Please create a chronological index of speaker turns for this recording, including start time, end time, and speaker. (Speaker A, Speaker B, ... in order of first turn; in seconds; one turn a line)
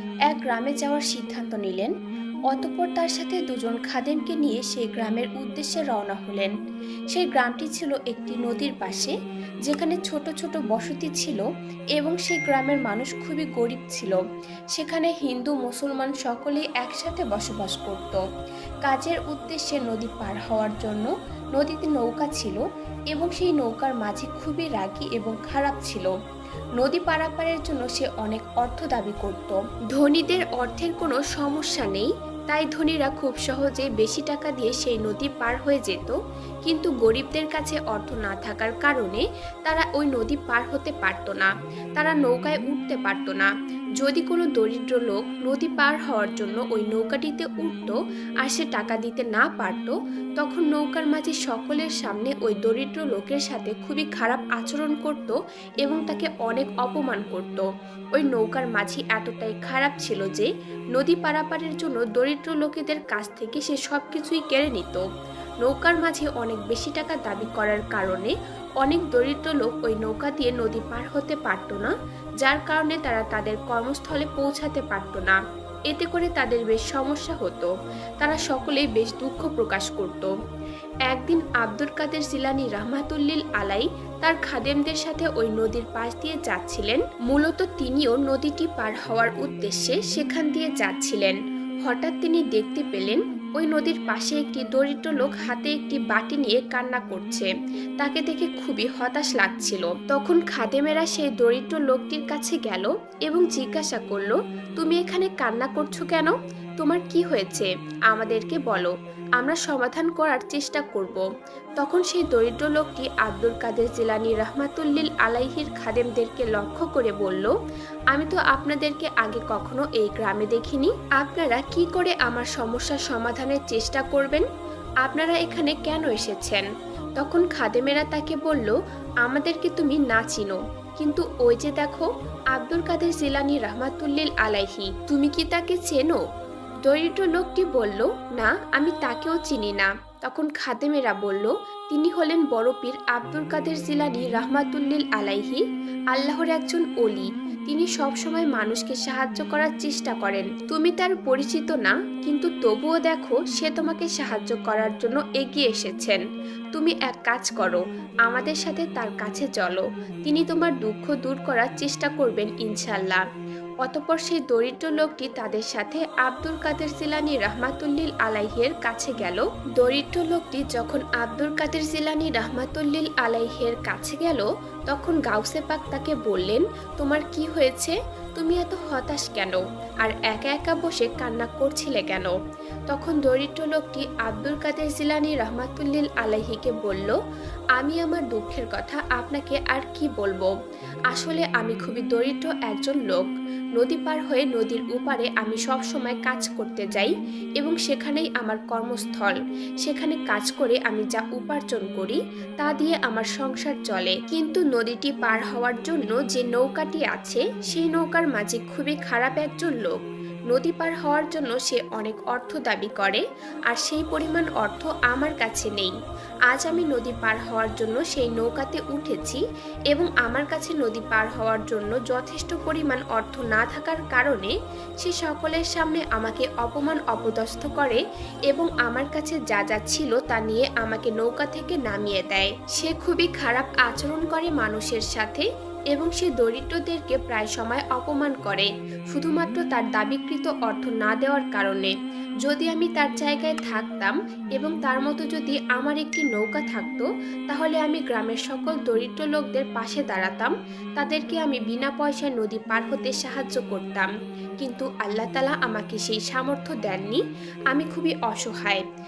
Speaker A: 0.3-1.9
Speaker A: 2.5-6.5
Speaker A: 7.1-9.1
Speaker A: 9.7-11.4
Speaker A: 12.0-14.2
Speaker A: 14.7-18.2
Speaker A: 18.8-26.1
Speaker A: 26.8-65.0
Speaker A: 65.6-75.4
Speaker A: 75.9-80.3
Speaker A: 81.1-111.2
Speaker A: 111.8-117.5
Speaker A: 118.1-124.5
Speaker A: 125.0-126.7
Speaker A: 127.2-136.2
Speaker A: 136.9-156.2
Speaker A: 156.7-163.2
Speaker A: 163.8-182.4
Speaker A: 182.9-187.2
Speaker A: 187.8-190.5
Speaker A: 191.1-210.0
Speaker A: 210.5-215.9
Speaker A: 216.5-241.9
Speaker A: 242.4-254.1
Speaker A: 254.6-258.8